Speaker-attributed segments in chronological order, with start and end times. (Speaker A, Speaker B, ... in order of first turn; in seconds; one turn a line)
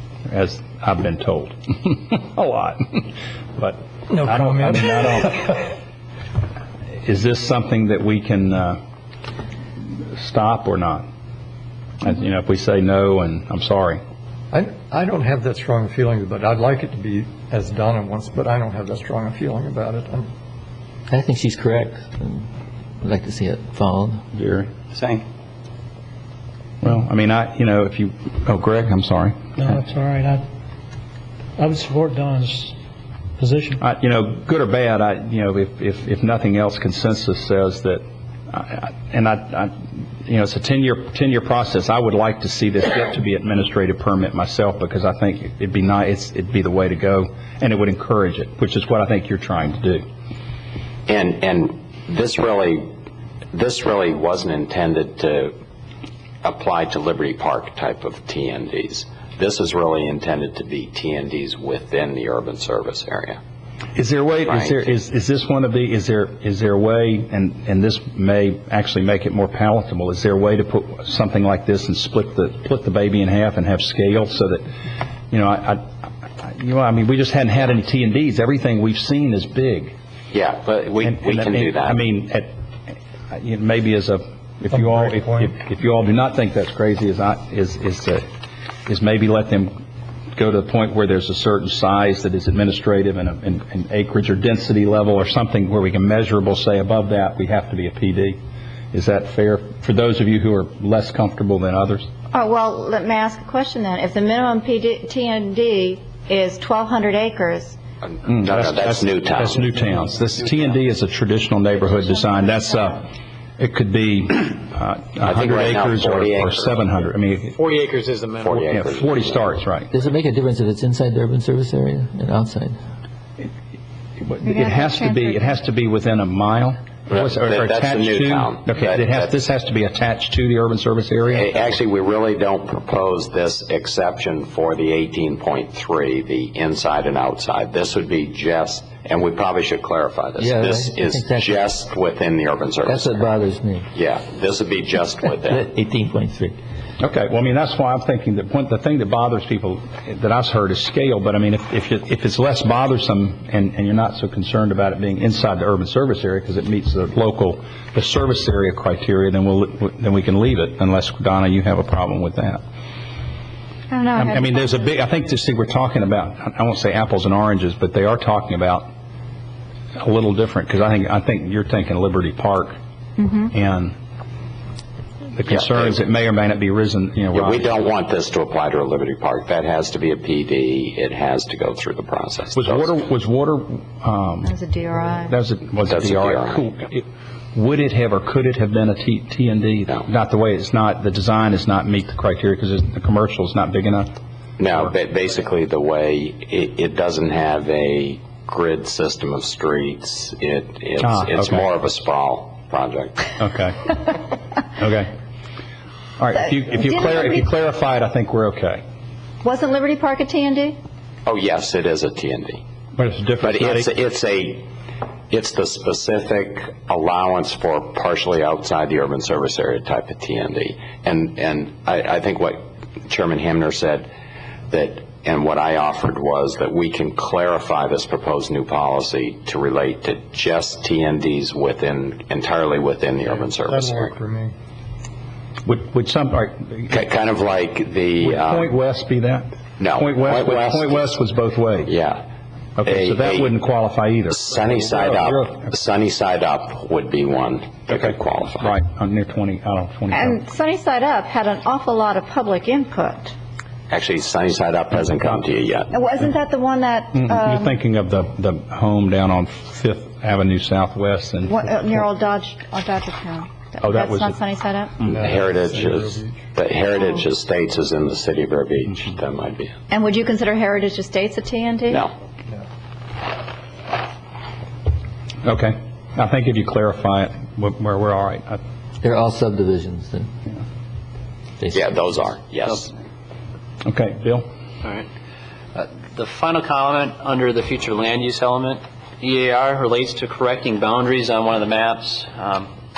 Speaker A: 0.3-3.1
Speaker A: 3.6-5.6
Speaker B: 4.1-5.1
Speaker A: 7.0-8.8
Speaker A: 10.0-11.1
Speaker A: 12.0-14.0
Speaker B: 14.5-20.3
Speaker C: 21.1-22.5
Speaker C: 23.0-24.2
Speaker A: 24.3-24.8
Speaker A: 26.8-29.8
Speaker D: 29.6-30.4
Speaker D: 31.6-32.8
Speaker D: 33.4-33.8
Speaker A: 33.8-39.7
Speaker A: 40.3-50.0
Speaker E: 51.1-52.9
Speaker E: 53.5-55.5
Speaker E: 56.4-63.4
Speaker A: 64.0-74.7
Speaker E: 64.5-64.8
Speaker A: 75.3-75.8
Speaker A: 76.4-80.0
Speaker E: 80.3-82.0
Speaker A: 81.0-88.3
Speaker B: 84.8-85.5
Speaker A: 88.9-89.7
Speaker A: 90.4-98.4
Speaker A: 98.9-102.1
Speaker F: 102.3-107.8
Speaker A: 108.2-113.1
Speaker E: 108.3-109.7
Speaker F: 112.0-112.9
Speaker A: 113.6-117.6
Speaker E: 115.2-116.8
Speaker G: 117.5-118.6
Speaker E: 118.4-119.4
Speaker A: 118.7-119.9
Speaker C: 119.9-122.8
Speaker A: 124.2-131.6
Speaker F: 124.4-125.5
Speaker E: 127.1-129.3
Speaker E: 131.3-143.3
Speaker C: 140.4-141.7
Speaker C: 142.8-143.9
Speaker E: 143.9-145.7
Speaker C: 145.5-146.6
Speaker A: 147.0-162.6
Speaker F: 163.9-164.8
Speaker A: 164.2-168.9
Speaker A: 170.0-172.8
Speaker F: 173.2-173.5
Speaker A: 173.5-174.0
Speaker A: 175.4-177.7
Speaker E: 175.5-176.0
Speaker E: 177.3-183.0
Speaker A: 182.6-184.5
Speaker F: 184.4-185.4
Speaker A: 185.3-194.1
Speaker E: 185.9-186.7
Speaker E: 194.6-203.3
Speaker A: 201.0-201.7
Speaker A: 203.4-204.0
Speaker A: 204.8-205.1
Speaker A: 206.2-208.8
Speaker F: 206.6-207.4
Speaker F: 209.4-210.8
Speaker E: 211.3-212.6
Speaker A: 213.0-213.9
Speaker E: 213.4-214.7
Speaker E: 215.3-224.1
Speaker E: 224.7-234.2
Speaker B: 233.6-234.5
Speaker A: 235.7-237.0
Speaker E: 236.9-238.7
Speaker A: 238.2-241.9
Speaker E: 239.8-241.1
Speaker E: 241.9-242.2
Speaker A: 242.8-245.7
Speaker E: 242.8-243.5
Speaker E: 244.3-248.7
Speaker A: 247.9-250.4
Speaker F: 250.1-253.3
Speaker E: 253.9-255.9
Speaker F: 255.9-257.8
Speaker A: 257.1-262.0
Speaker F: 261.5-264.9
Speaker A: 263.8-264.4
Speaker E: 265.1-269.7
Speaker B: 265.1-266.4
Speaker F: 269.9-272.1
Speaker A: 275.4-278.6
Speaker C: 279.0-280.3
Speaker C: 281.6-282.1
Speaker E: 281.7-282.9
Speaker A: 283.9-284.5
Speaker G: 285.8-292.7